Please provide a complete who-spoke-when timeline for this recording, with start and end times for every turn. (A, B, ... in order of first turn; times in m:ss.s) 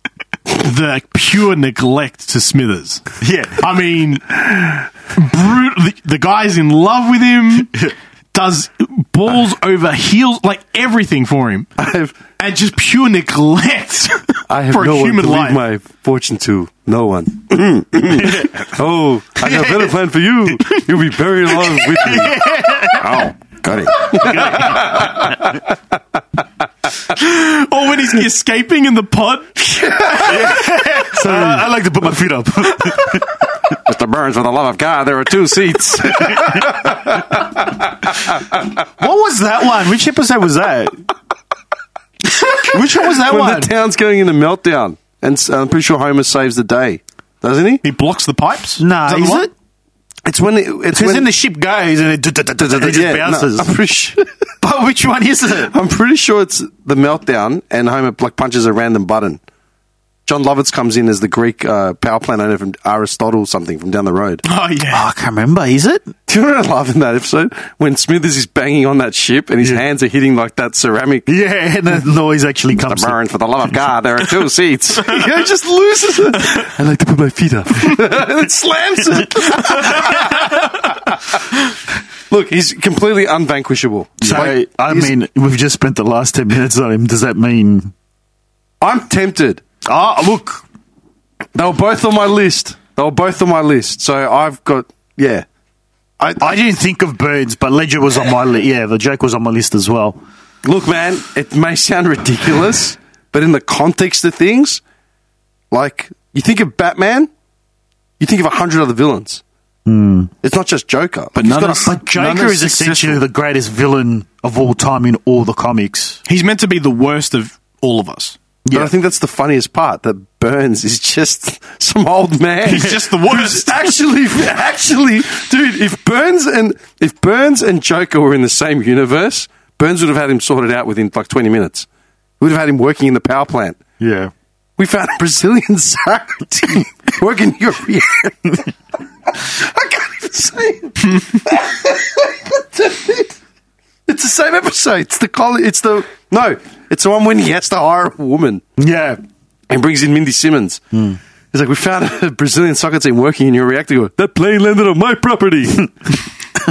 0:00.5-0:03.0 A
0:03.2-0:03.7 B
0:03.6-0:11.7 A
0:11.8-0:12.2 C
0:12.4-0:15.6 A
0:14.5-0:22.4 C
0:18.1-0:18.6 B
0:19.4-0:19.9 B
0:21.5-0:23.3 B
0:22.9-0:25.6 C
0:24.0-0:25.4 B
0:27.1-0:30.5 A
0:29.8-0:30.6 C
0:30.2-0:33.5 B
0:33.8-0:38.4 C
0:36.3-0:36.7 B
0:39.0-0:41.0 B
0:42.4-0:43.7 B
0:43.1-0:47.8 C
0:47.8-0:49.5 A
0:48.8-0:49.5 B
0:50.2-0:51.3 C
0:50.9-0:53.8 B
0:52.6-0:54.3 C
0:54.6-0:55.7 B
0:55.6-0:59.4 C
1:00.3-1:04.4 C
1:04.4-1:05.1 A
1:04.9-1:06.1 B
1:06.3-1:11.3 C
1:11.3-1:13.2 B
1:12.9-1:21.4 C
1:19.4-1:20.4 B
1:22.3-1:25.1 C
1:24.2-1:27.9 B
1:28.8-1:29.6 C
1:29.9-1:30.6 B
1:31.6-1:35.4 C
1:36.2-1:36.6 C
1:36.4-1:40.2 B
1:40.6-1:44.8 C
1:45.7-1:47.3 C
1:48.2-1:49.4 C
1:49.9-1:50.3 B
1:50.4-1:51.9 C
1:51.4-1:53.2 A
1:51.8-1:56.2 B
1:56.3-1:58.4 A
1:58.7-1:58.9 B
1:58.7-2:11.9 C
2:02.6-2:04.0 A
2:12.4-2:13.8 C
2:14.0-2:14.3 B
2:14.8-2:18.7 C
2:19.3-2:23.3 C
2:24.1-2:28.6 C
2:28.8-2:29.2 B
2:29.7-2:30.8 C
2:31.5-2:36.0 C